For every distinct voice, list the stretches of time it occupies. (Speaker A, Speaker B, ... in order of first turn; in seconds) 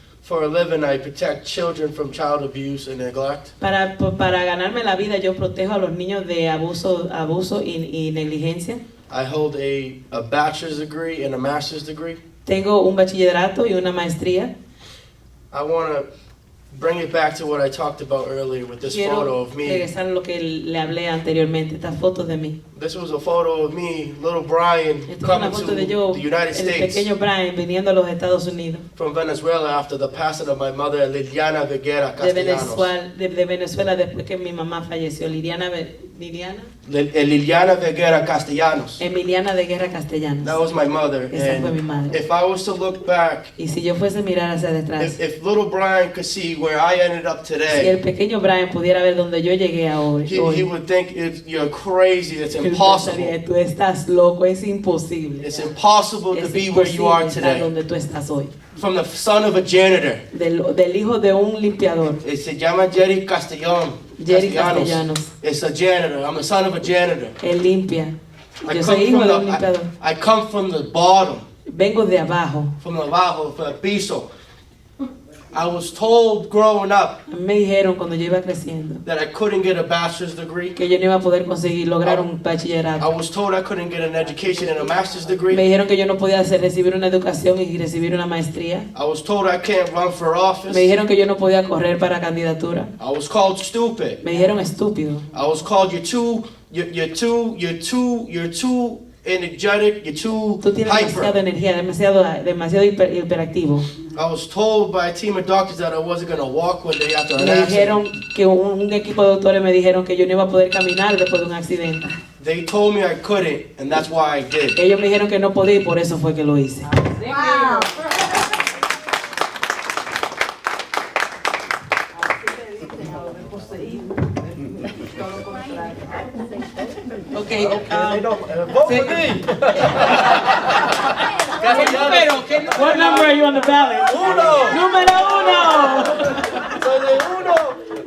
Speaker A: 0.2-3.5, 9.1-12.2, 15.5-16.1, 16.7-19.9, 22.7-27.1, 28.9-32.9, 36.8-39.0, 40.4-43.5, 45.0-47.9, 50.2-53.3, 55.4-57.7, 58.7-60.2, 62.1-67.4, 68.6-71.5, 72.8-74.3, 75.5-77.2, 79.0-80.8, 83.0-85.6, 88.9-90.9, 93.0-94.2, 95.3-101.4, 104.1-108.0, 112.4-114.8, 127.6-130.4, 131.5-132.4, 134.1-134.8, 135.7-137.8
Speaker B: 3.6-8.8, 12.4-14.5, 18.8-22.6, 25.1-28.8, 32.2-36.7, 39.0-40.6, 41.3-42.1, 43.6-45.2, 47.7-50.7, 52.6-55.6, 56.3-58.5, 60.3-62.2, 64.2-65.3, 67.4-69.9, 71.7-72.7, 77.3-79.0, 80.8-83.1, 85.5-88.9, 90.7-92.9, 94.2-95.3, 100.6-103.9, 107.4-112.1, 114.8-116.9, 127.3-128.2, 128.8-129.2, 132.6-136.6
Speaker C: 117.0-118.1, 122.8-123.9, 125.5-125.9, 127.3-127.7, 131.6-133.3, 134.7-135.0